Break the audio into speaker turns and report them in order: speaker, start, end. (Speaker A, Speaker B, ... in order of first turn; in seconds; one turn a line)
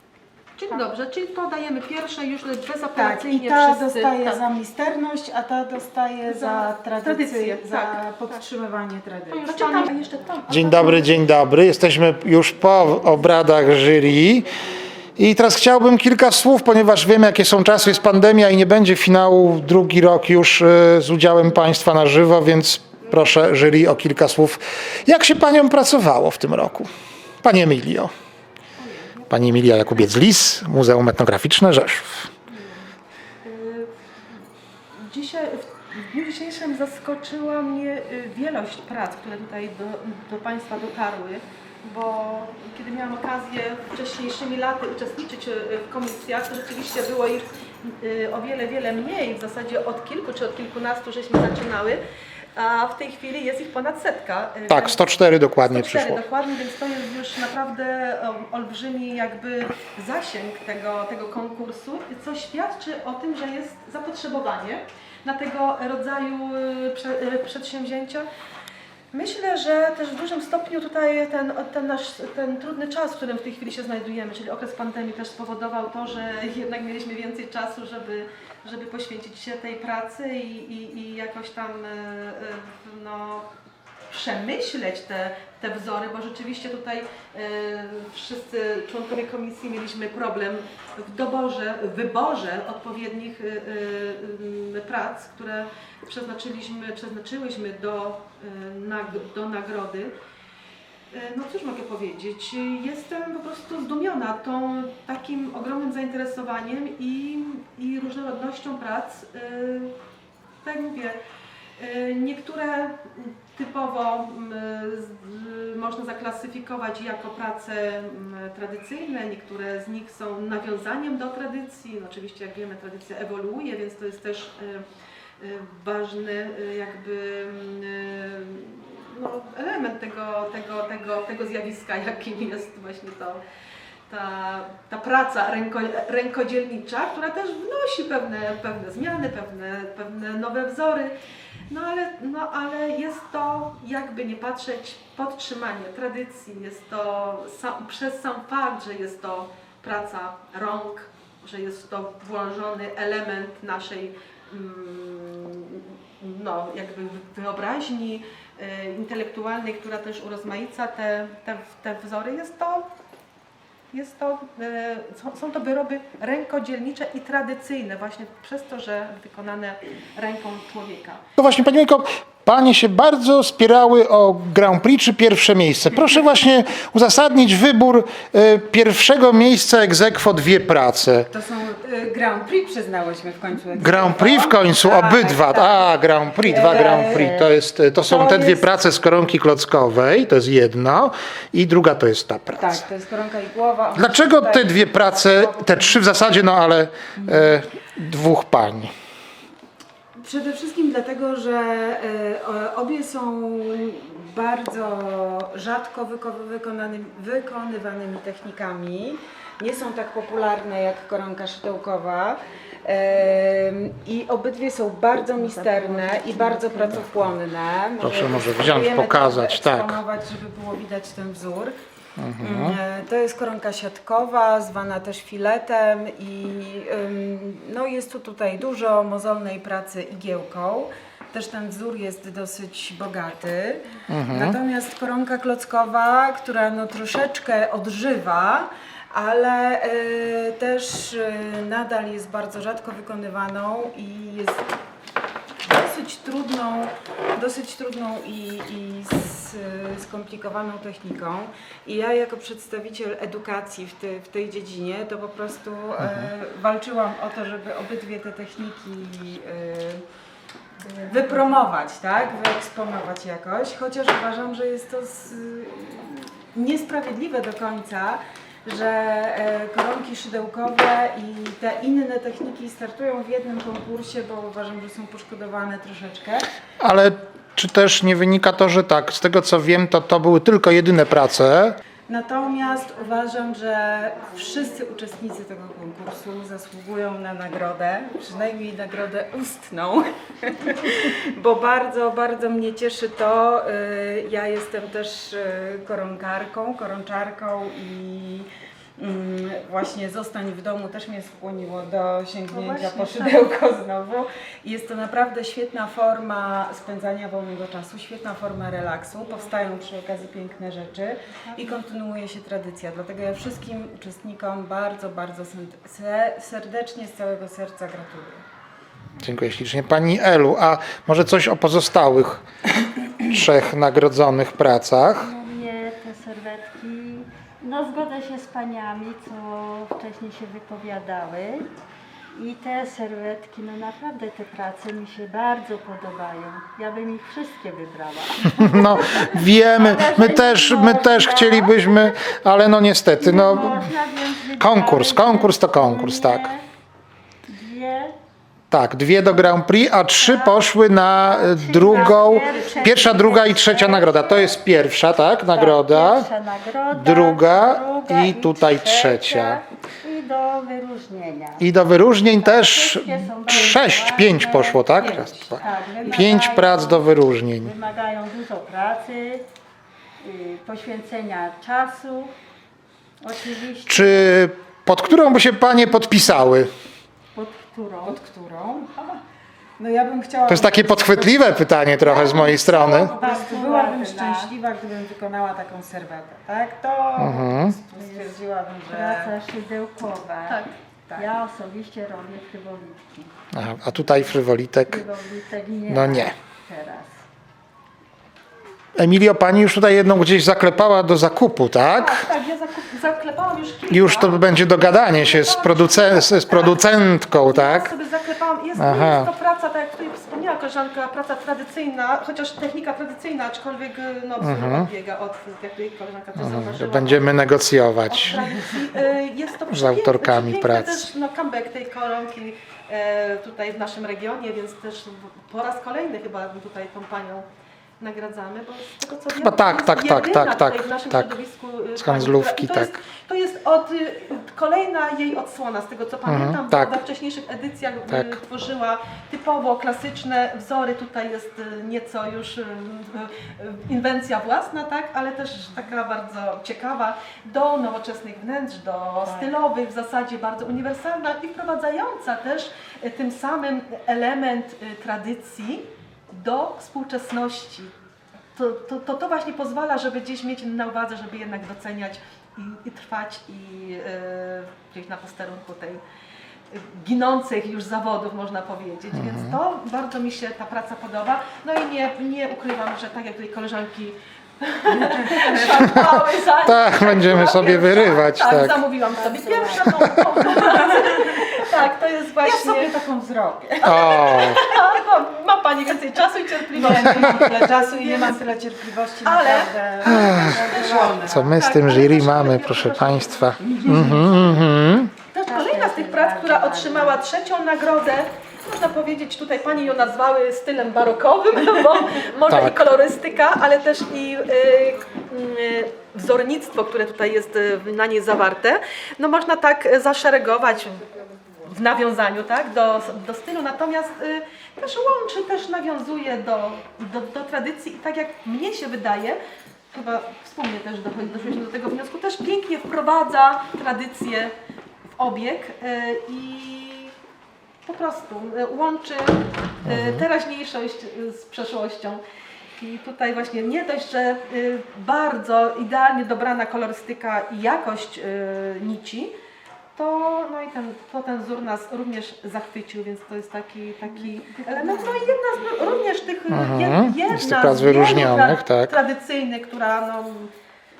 Speaker A: 0.6-4.4
Speaker B: 2.9-10.0
Speaker A: 6.2-8.4
Speaker A: 9.3-11.3
Speaker C: 10.5-14.6
Speaker C: 15.2-26.9
Speaker C: 27.4-28.1
Speaker A: 28.8-29.2
Speaker C: 29.3-32.3
Speaker A: 32.5-32.8
Speaker A: 33.4-33.9
Speaker A: 34.9-52.0
Speaker A: 52.5-55.0
Speaker C: 54.7-56.2
Speaker A: 55.6-68.2
Speaker A: 69.1-83.5
Speaker A: 84.1-100.1
Speaker A: 101.1-110.0
Speaker A: 110.6-111.2
Speaker A: 111.8-124.8
Speaker A: 125.4-133.4
Speaker A: 134.1-141.2
Speaker A: 141.7-162.9
Speaker A: 163.9-171.2
Speaker C: 171.4-181.3
Speaker B: 181.3-187.5
Speaker C: 183.8-192.8
Speaker B: 188.1-188.7
Speaker B: 192.5-196.0
Speaker C: 193.9-198.9
Speaker B: 197.2-197.6
Speaker B: 200.2-221.7
Speaker D: 215.2-217.1
Speaker C: 218.0-220.0
Speaker C: 222.2-222.8
Speaker B: 222.4-244.6
Speaker C: 234.1-234.6
Speaker B: 245.6-260.0
Speaker C: 256.0-256.3
Speaker D: 260.8-261.7
Speaker B: 261.1-276.5
Speaker C: 276.8-281.8
Speaker B: 282.1-318.4
Speaker D: 302.5-303.4
Speaker C: 319.2-322.4
Speaker C: 323.2-325.3
Speaker D: 325.2-331.7
Speaker D: 332.3-342.2
Speaker C: 338.5-343.9
Speaker D: 343.2-346.6
Speaker C: 344.6-346.5
Speaker D: 347.5-348.1
Speaker C: 348.7-356.3
Speaker D: 350.2-350.7
Speaker D: 351.2-354.6
Speaker D: 355.5-361.7
Speaker C: 356.9-359.6
Speaker C: 361.6-367.7
Speaker D: 362.4-367.0
Speaker B: 365.0-365.7
Speaker D: 367.6-369.4
Speaker D: 370.2-372.3
Speaker D: 373.2-374.3
Speaker C: 373.9-376.7
Speaker D: 377.3-378.2
Speaker B: 378.0-379.2
Speaker B: 379.8-381.5
Speaker C: 380.5-383.1
Speaker B: 382.0-389.4
Speaker D: 382.6-384.5
Speaker C: 387.2-387.8
Speaker D: 387.9-393.3
Speaker A: 390.5-390.7
Speaker C: 393.5-395.0
Speaker D: 394.9-397.2
Speaker C: 395.9-396.3
Speaker C: 398.9-402.3
Speaker A: 401.9-406.8
Speaker C: 403.9-407.9
Speaker A: 407.4-417.3
Speaker C: 408.8-409.3
Speaker C: 414.4-414.9
Speaker C: 416.4-418.6
Speaker A: 418.1-427.4
Speaker C: 419.7-421.1
Speaker A: 428.0-457.9
Speaker C: 429.4-431.3
Speaker C: 432.0-432.9
Speaker C: 436.2-436.9
Speaker C: 438.1-438.3
Speaker A: 458.6-466.0
Speaker A: 466.7-482.9
Speaker C: 469.1-469.6
Speaker C: 475.7-478.8
Speaker D: 479.1-479.9
Speaker C: 479.8-480.2
Speaker B: 480.6-481.6
Speaker B: 482.4-484.8
Speaker A: 483.8-488.4
Speaker C: 483.8-484.6
Speaker B: 486.7-491.5
Speaker A: 489.2-494.3
Speaker C: 490.0-490.7
Speaker C: 491.2-495.1
Speaker B: 493.6-494.3
Speaker A: 495.3-511.0
Speaker D: 495.4-497.2
Speaker C: 502.4-502.9
Speaker A: 511.6-519.4
Speaker A: 519.9-524.5
Speaker A: 525.2-527.1
Speaker A: 527.9-532.2
Speaker C: 529.8-530.2
Speaker A: 532.8-539.3
Speaker A: 539.9-550.5
Speaker D: 544.1-545.3
Speaker C: 546.5-548.9